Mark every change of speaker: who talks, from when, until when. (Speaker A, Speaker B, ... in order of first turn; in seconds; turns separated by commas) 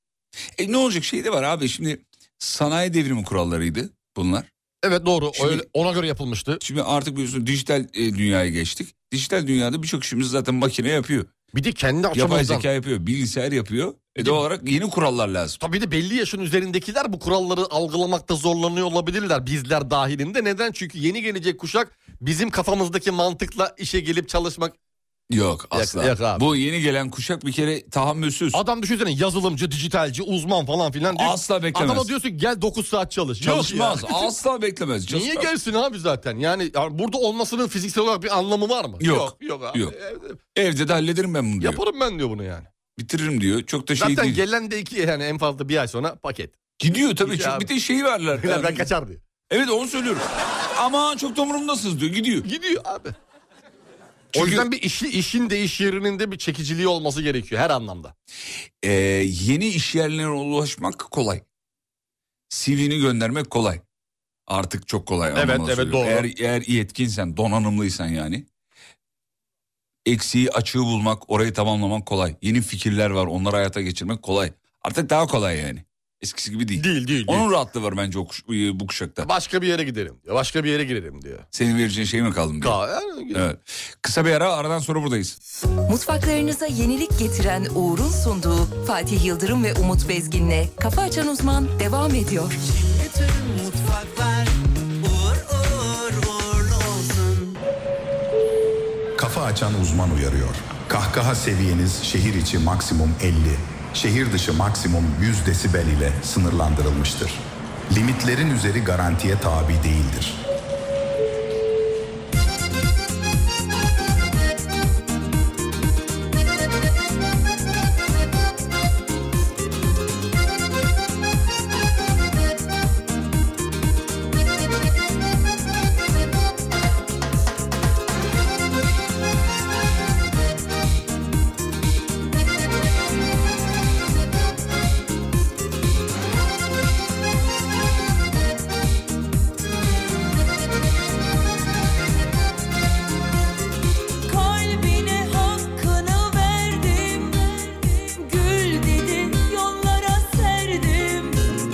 Speaker A: 0.6-4.5, Speaker B: 4.8-6.6, Speaker A: 5.3-5.6, Speaker A: 6.6-11.3, Speaker B: 11.5-12.7, Speaker A: 12.1-15.6, Speaker B: 15.6-24.8, Speaker A: 25.3-28.6, Speaker B: 25.7-26.4, Speaker B: 28.5-34.3, Speaker A: 31.1-32.1, Speaker A: 33.4-35.5, Speaker B: 35.1-40.4, Speaker A: 39.0-39.9, Speaker A: 40.5-41.8, Speaker B: 41.6-42.7, Speaker A: 43.0-44.4, Speaker B: 44.0-46.6, Speaker A: 46.8-48.9, Speaker B: 47.2-47.7, Speaker B: 48.4-49.2, Speaker A: 49.5-52.5, Speaker B: 52.4-53.1, Speaker A: 54.3-54.7, Speaker B: 54.3-58.1, Speaker A: 58.8-61.4, Speaker A: 62.5-63.8, Speaker A: 64.5-68.5, Speaker B: 65.3-66.3, Speaker A: 70.1-79.3, Speaker B: 76.8-77.5, Speaker B: 79.2-81.5, Speaker A: 81.5-82.8, Speaker B: 82.6-83.5, Speaker A: 83.3-85.4, Speaker C: 85.9-92.6, Speaker D: 92.8-97.6, Speaker E: 99.2-110.4, Speaker F: 144.3-151.6